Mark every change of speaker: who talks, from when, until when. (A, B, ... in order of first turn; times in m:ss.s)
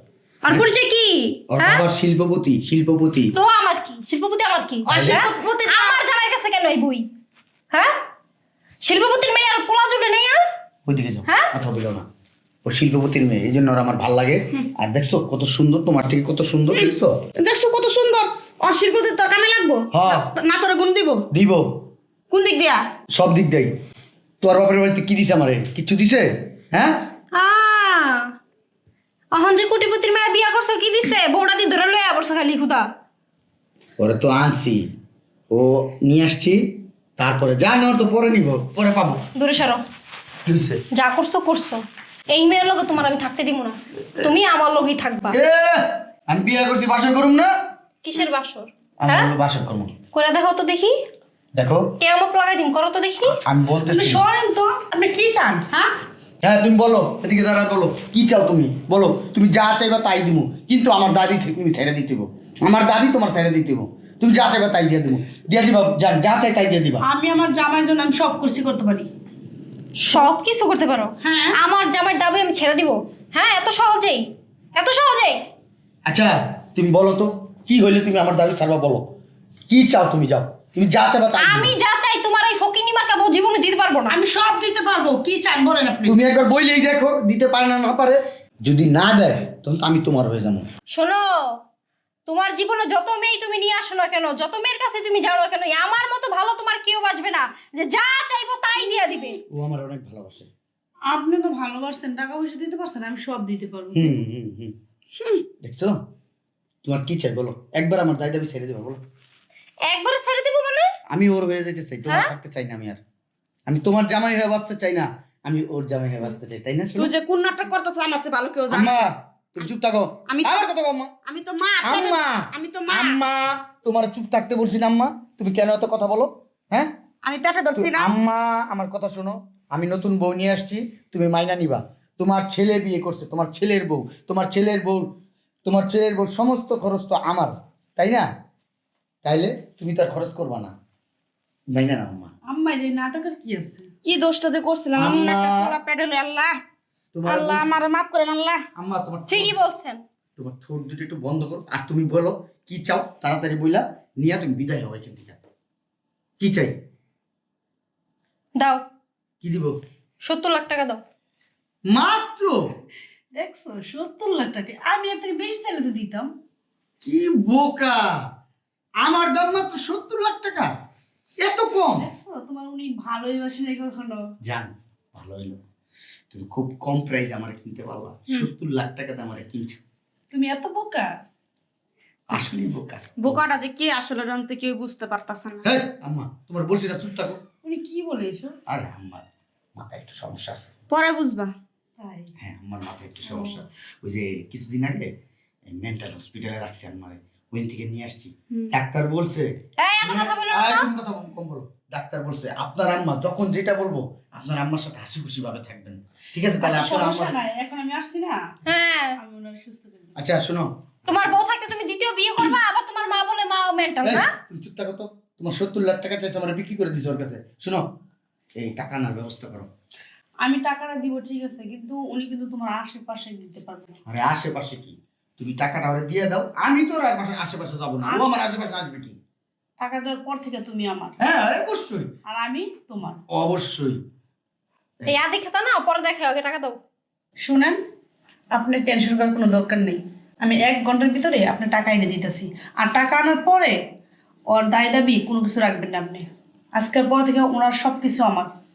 0:00.4-0:01.8 A
0:01.5-0:03.3 B
0:03.3-0:07.1 A
0:04.8-0:06.0 C
0:04.9-0:05.2 B
0:08.8-0:10.4 A
0:10.8-0:12.0 B
0:11.3-0:11.5 A
0:12.6-0:17.2 B
0:17.4-0:21.2 C
0:19.9-0:20.3 B
0:21.3-0:21.6 B
0:22.3-0:22.8 C
0:23.1-0:23.7 B
0:24.4-0:27.0 B
0:27.3-0:28.3 A
0:29.3-0:32.8 A
0:34.0-0:34.8 B
0:35.5-0:36.6 B
0:37.2-0:39.2 B
0:39.4-0:39.8 A
0:40.4-0:40.8 B
0:40.9-0:45.4 A
0:45.3-0:47.5 B
0:48.0-0:49.3 A
0:49.0-0:49.9 B
0:50.1-0:50.9 A
0:51.5-0:51.9 B
0:52.0-0:53.4 A
0:53.4-0:54.2 B
0:53.8-0:55.9 D
0:56.4-1:07.0 B
1:07.0-1:09.1 D
1:10.0-1:15.4 A
1:11.2-1:11.6 D
1:16.1-1:19.1 B
1:19.7-1:21.7 B
1:21.4-1:24.2 A
1:24.1-1:26.2 D
1:26.0-1:30.7 B
1:30.9-1:31.6 A
1:32.3-1:39.4 A
1:39.5-1:40.5 B
1:41.1-1:44.2 D
1:43.9-1:44.7 B
1:45.6-1:46.0 B
1:46.8-1:49.0 B
1:49.8-1:50.9 A
1:51.1-1:53.0 B
1:52.1-1:52.3 A
1:53.7-1:57.1 B
1:57.0-1:59.0 C
1:58.7-2:01.1 B
2:00.3-2:00.6 C
2:01.2-2:03.2 C
2:01.8-2:06.9 B
2:07.2-2:08.1 C
2:07.8-2:15.1 B
2:15.6-2:18.3 B
2:19.2-2:20.7 B
2:21.7-2:22.3 B
2:22.4-2:23.9 D
2:24.0-2:26.6 C
2:24.9-2:25.8 B
2:27.1-2:27.7 B
2:27.2-2:28.6 C
2:28.8-2:29.5 B
2:29.3-2:30.0 A
2:30.4-2:35.4 B
2:36.4-2:36.7 B
2:38.6-2:38.8 A
2:39.4-2:39.8 B
2:40.2-2:41.0 A
2:41.9-2:42.6 B
2:43.3-2:46.3 D
2:47.0-2:48.1 B
2:49.0-2:50.7 B
2:51.4-2:52.1 B
2:52.0-2:54.2 D
2:54.4-2:55.6 B
2:56.3-2:59.8 B
3:00.3-3:01.1 D
3:02.3-3:03.4 B
3:03.2-3:05.6 C
3:05.6-3:07.4 B
3:07.6-3:08.5 D
3:08.7-3:09.2 B
3:09.8-3:10.7 B
3:10.9-3:11.5 C
3:12.0-3:12.3 D
3:12.4-3:15.1 B
3:15.7-3:19.5 B
3:19.8-3:20.9 A
3:20.0-3:27.3 B
3:26.6-3:28.4 D
3:28.6-3:29.2 A
3:29.2-3:30.2 D
3:30.2-3:30.7 B
3:31.1-3:34.3 A
3:34.0-3:37.8 B
3:38.6-3:39.7 B
3:40.4-3:44.0 D
3:44.0-3:49.2 B
3:48.0-3:48.4 D
3:49.8-3:51.2 D
3:51.2-3:52.1 B
3:52.2-3:53.2 D
3:53.3-3:54.0 B
3:55.1-3:56.8 A
3:57.4-3:57.8 D
3:58.5-4:03.7 D
4:04.5-4:08.5 D